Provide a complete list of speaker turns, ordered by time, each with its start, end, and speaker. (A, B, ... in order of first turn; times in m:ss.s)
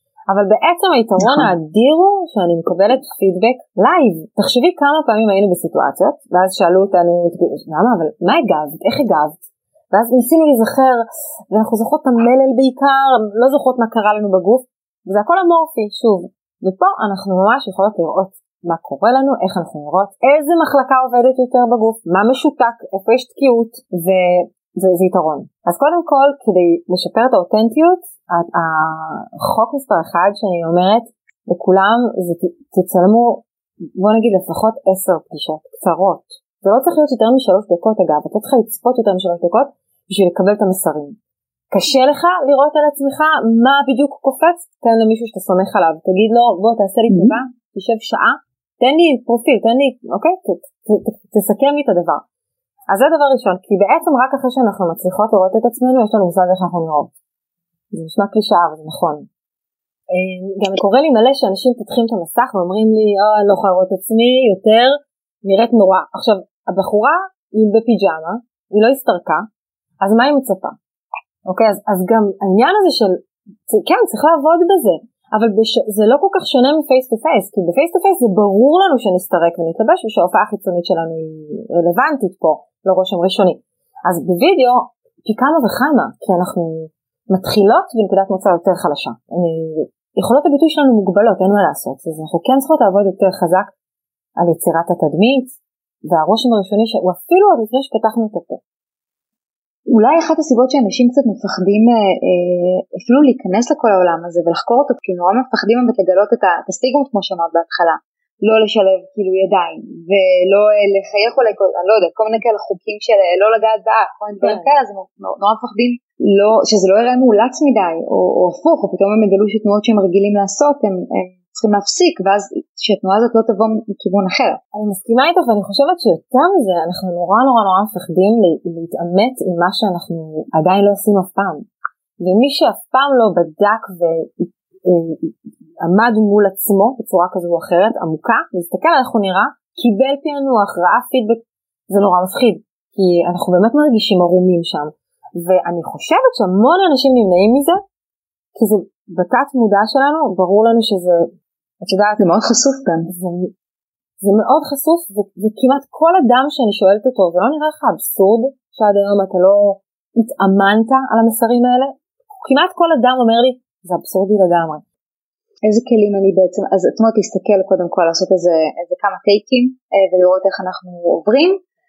0:00.3-0:33.4 A
0:01.2-0:01.5 B
0:34.0-0:41.2 A
0:41.7-0:52.2 A
0:47.1-0:47.4 B
0:52.9-0:57.1 A
0:57.9-0:59.3 A
1:00.1-1:09.4 A
1:10.0-1:10.8 A
1:11.4-1:33.7 A
1:34.4-1:35.5 A
1:36.1-1:38.6 A
1:39.9-2:04.6 B
1:54.4-1:54.7 A
2:04.7-2:11.6 A
2:12.2-2:27.8 A
2:28.5-2:32.2 A
2:32.2-2:33.1 B
2:33.1-2:33.5 A
2:34.2-2:44.8 A
2:45.6-2:51.6 B